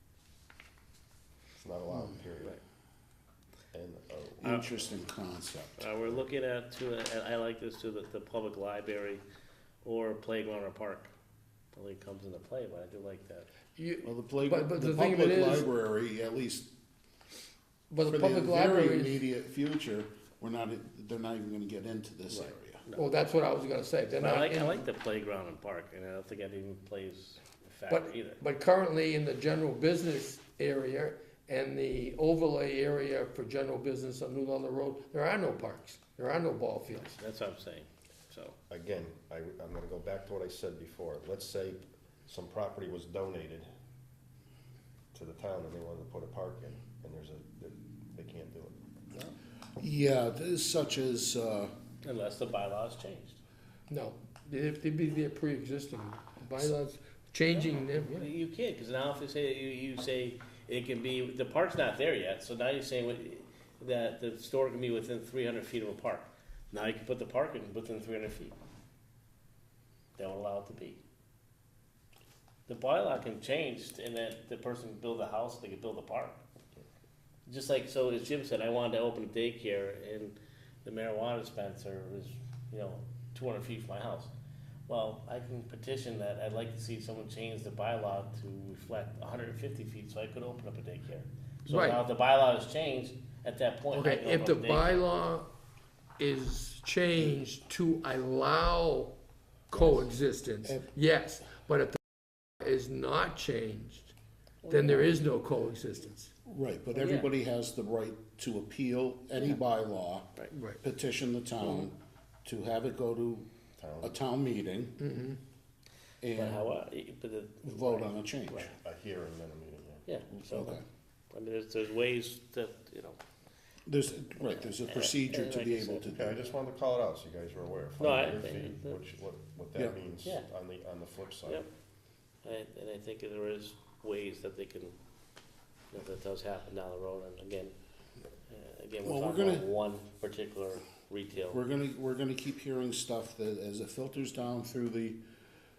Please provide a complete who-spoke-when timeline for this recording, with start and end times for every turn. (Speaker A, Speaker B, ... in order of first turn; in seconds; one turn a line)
Speaker A: 1.6-2.6
Speaker A: 3.7-4.5
Speaker B: 4.4-5.9
Speaker C: 4.4-4.7
Speaker C: 5.8-9.2
Speaker C: 9.8-11.1
Speaker C: 11.7-13.5
Speaker D: 13.7-15.7
Speaker B: 14.0-16.7
Speaker D: 17.9-19.2
Speaker B: 18.1-22.8
Speaker C: 22.3-23.0
Speaker D: 22.9-24.9
Speaker C: 24.1-28.4
Speaker D: 27.9-37.2
Speaker C: 37.1-38.6
Speaker A: 38.7-43.7
Speaker A: 45.1-48.8
Speaker B: 49.8-51.7
Speaker C: 52.0-53.4
Speaker D: 53.9-58.3
Speaker C: 57.5-68.6
Speaker C: 70.2-71.0
Speaker C: 72.7-76.4
Speaker C: 77.5-84.3
Speaker C: 84.9-95.1
Speaker D: 91.7-92.0
Speaker D: 93.9-95.5
Speaker D: 96.2-99.2
Speaker D: 99.7-102.0
Speaker D: 102.6-104.1
Speaker C: 104.6-105.2
Speaker D: 104.7-106.3
Speaker B: 106.5-113.5
Speaker C: 106.9-107.3
Speaker D: 110.5-110.8
Speaker A: 113.8-114.1
Speaker B: 114.0-115.0
Speaker D: 115.0-115.4
Speaker B: 116.2-116.7
Speaker C: 116.3-118.7
Speaker B: 117.6-118.7
Speaker A: 118.7-120.0
Speaker C: 120.0-123.2
Speaker B: 120.5-120.8
Speaker B: 123.9-126.5
Speaker C: 124.5-126.0
Speaker A: 126.1-131.6
Speaker C: 128.0-129.0
Speaker C: 132.4-135.0
Speaker C: 135.9-137.8
Speaker C: 138.5-141.6
Speaker B: 139.0-139.7
Speaker B: 141.5-145.2